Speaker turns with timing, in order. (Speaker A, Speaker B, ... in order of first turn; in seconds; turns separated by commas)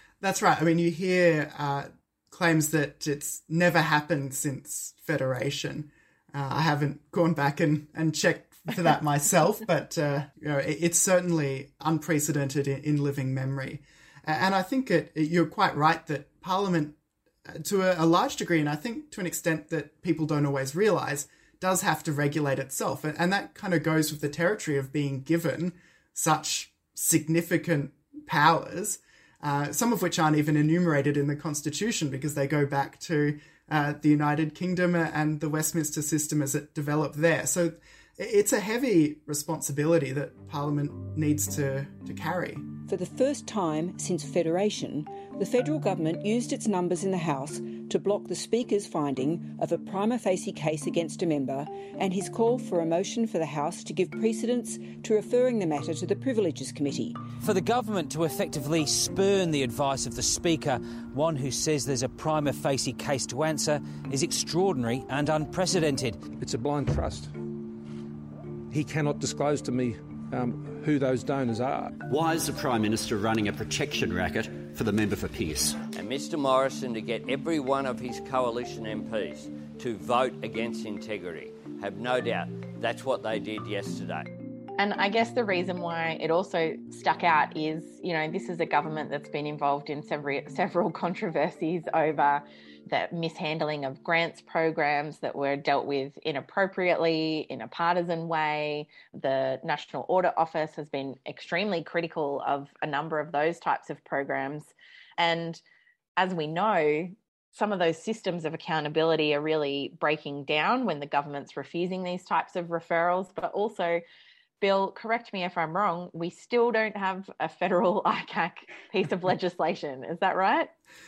Speaker A: 0.2-42.7, Speaker B: 42.9-57.2, Speaker C: 57.4-66.3, Speaker D: 66.3-67.3, Speaker D: 68.7-72.0, Speaker E: 72.0-75.8, Speaker F: 75.9-84.3, Speaker G: 84.8-105.6, Speaker G: 106.2-114.0, Speaker G: 114.6-120.7